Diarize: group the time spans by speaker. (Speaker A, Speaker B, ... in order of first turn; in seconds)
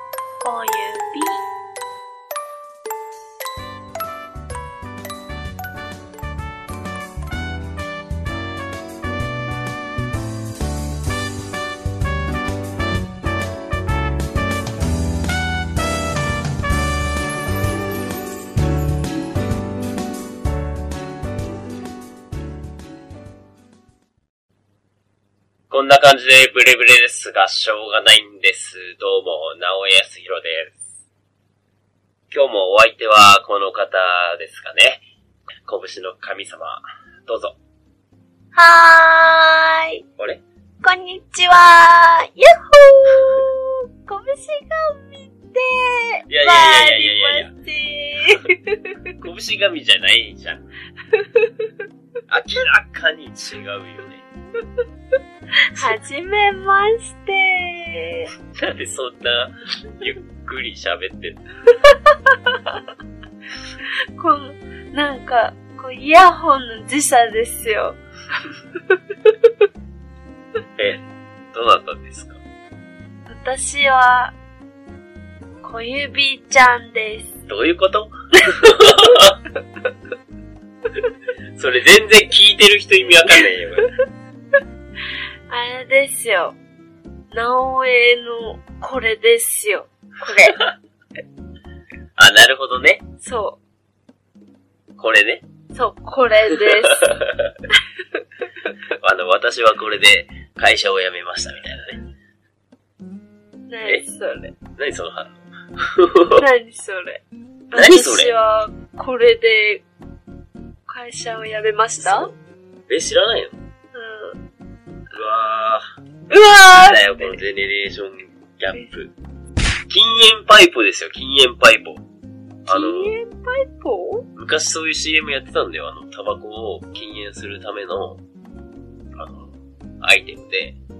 Speaker A: 0.4-1.4, 38.5-40.0, 40.8-49.1, 51.1-51.7, 55.7-58.3, 61.9-62.7, 64.2-68.0, 73.3-74.3, 75.6-77.4, 78.5-79.2, 85.5-86.6, 87.3-90.6, 93.2-93.6, 95.7-97.1, 103.7-104.5, 106.4-109.8, 110.9-112.3, 113.9-114.4, 116.3-117.4, 122.7-124.3
Speaker B: 25.7-30.8, 32.3-35.0, 35.6-37.6, 43.1-43.5, 46.3-47.5, 49.2-50.6, 52.3-54.2, 58.5-61.4, 70.8-71.0, 71.5-72.4, 77.5-79.4, 81.6-83.9, 92.2-93.0, 95.0-95.5, 96.5-97.5, 99.0-102.0, 104.7-106.4, 107.7-108.3, 112.0-112.3, 112.9-113.6, 115.1-115.8, 116.9-119.1, 119.9-122.0, 122.7-123.1, 124.4-128.2, 129.2-130.8